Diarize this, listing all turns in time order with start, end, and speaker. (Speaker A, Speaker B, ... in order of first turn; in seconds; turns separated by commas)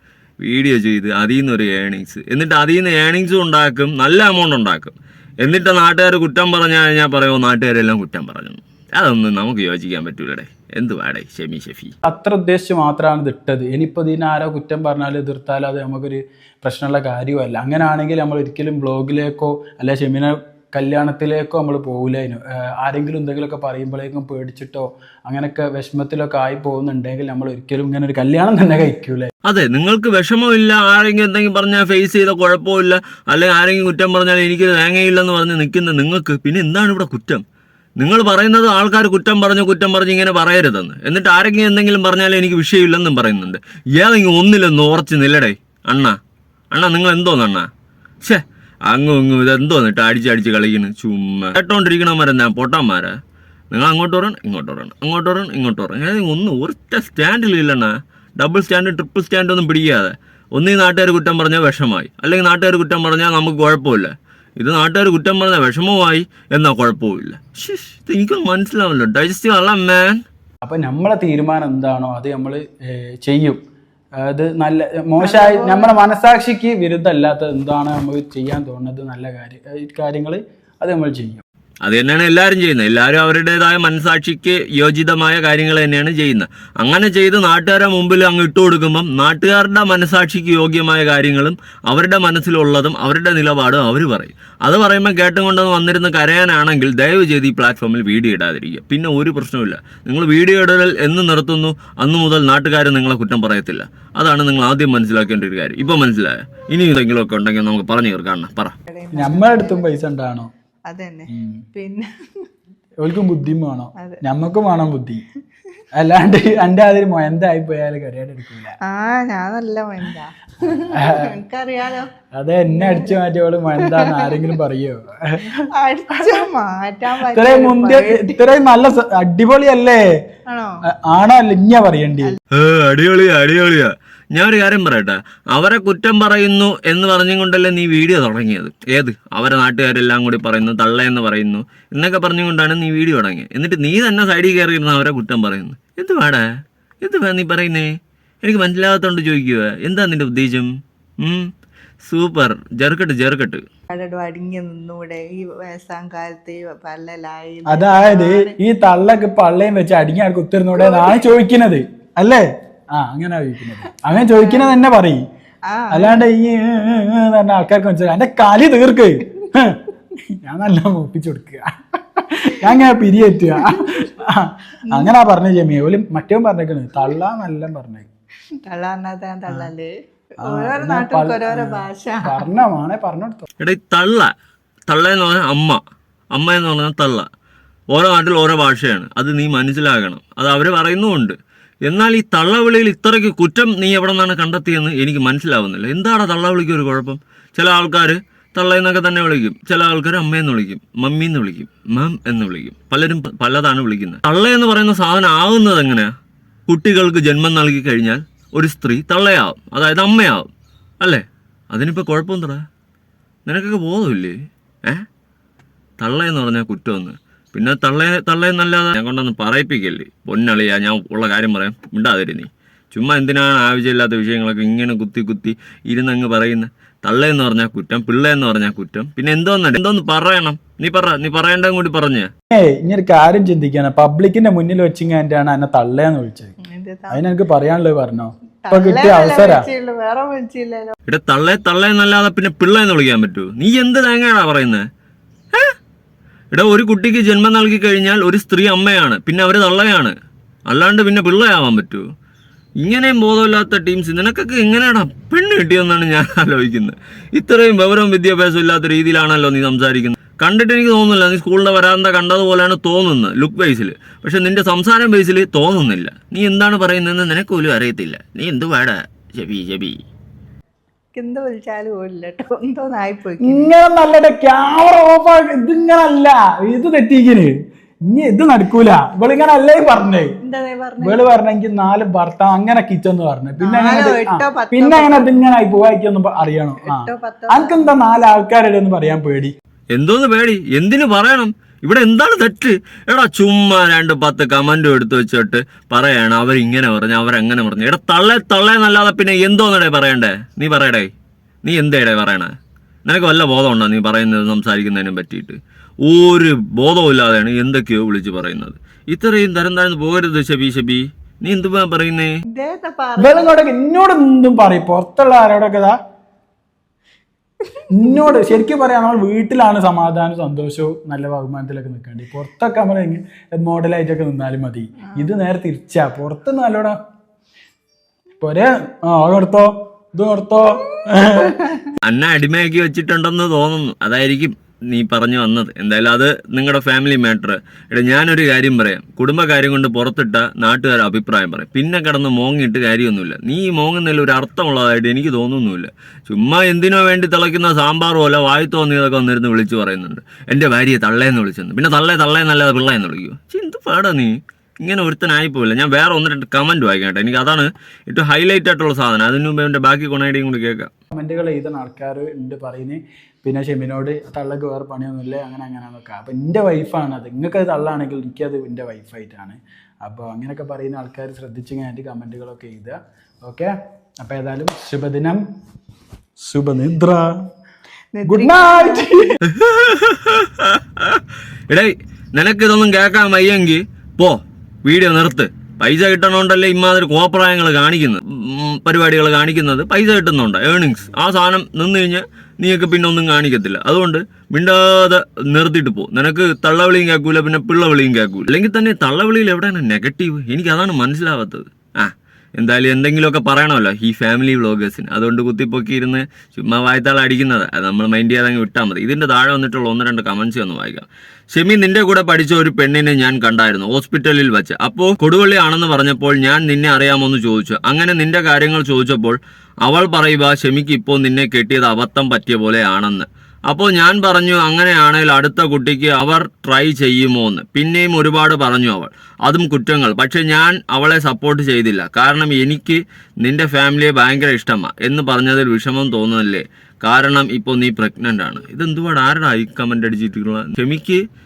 Speaker A: 0.4-11.9, Speaker B: 12.1-29.3, Speaker A: 29.4-37.4, Speaker A: 38.0-46.2, Speaker A: 46.7-47.7, Speaker A: 48.2-53.1, Speaker A: 53.7-70.2, Speaker B: 70.6-73.6, Speaker B: 74.2-81.4, Speaker C: 75.2-76.0, Speaker A: 81.8-108.7, Speaker C: 108.9-109.9, Speaker B: 109.1-110.5, Speaker C: 110.9-112.5, Speaker B: 111.3-111.6, Speaker B: 113.0-115.2, Speaker B: 115.9-118.8, Speaker C: 118.9-122.1, Speaker B: 120.9-121.3, Speaker B: 122.3-125.4, Speaker C: 122.7-123.2, Speaker C: 123.8-124.5, Speaker C: 125.5-128.4, Speaker B: 127.3-130.0, Speaker C: 130.5-130.8, Speaker B: 131.0-132.4, Speaker A: 132.5-146.5, Speaker A: 147.0-147.9, Speaker A: 148.4-150.7, Speaker A: 151.2-151.5, Speaker A: 152.0-153.6, Speaker C: 153.9-158.6, Speaker B: 157.7-162.4, Speaker C: 160.8-161.3, Speaker B: 162.9-165.2, Speaker C: 164.3-164.8, Speaker C: 165.7-166.2, Speaker B: 165.9-169.8, Speaker B: 170.4-171.6, Speaker B: 172.2-178.1, Speaker C: 178.7-179.9, Speaker C: 180.4-182.4, Speaker B: 180.4-183.4, Speaker A: 183.6-184.3, Speaker A: 184.9-185.8, Speaker A: 186.3-187.3, Speaker A: 187.9-206.1, Speaker A: 206.7-210.5, Speaker A: 211.0-212.6, Speaker A: 213.5-214.3, Speaker A: 216.0-232.3, Speaker B: 232.5-236.5, Speaker C: 236.6-237.2, Speaker B: 237.1-239.7, Speaker C: 238.6-240.9, Speaker A: 241.1-244.8, Speaker A: 246.5-250.1, Speaker A: 250.7-252.0, Speaker A: 252.8-270.0, Speaker C: 271.1-273.7, Speaker B: 273.4-277.5, Speaker B: 278.1-280.3, Speaker C: 280.4-281.2, Speaker B: 281.0-289.5, Speaker C: 283.6-285.4, Speaker C: 286.9-288.0, Speaker A: 289.9-301.1, Speaker A: 301.6-302.5, Speaker A: 303.1-312.4, Speaker C: 312.4-313.5, Speaker B: 313.2-316.0, Speaker B: 317.9-326.9, Speaker B: 328.4-331.7, Speaker C: 331.4-331.8, Speaker A: 332.0-360.9, Speaker B: 361.1-375.4, Speaker B: 376.4-377.3, Speaker C: 378.1-379.1, Speaker B: 378.2-379.3, Speaker A: 379.5-441.2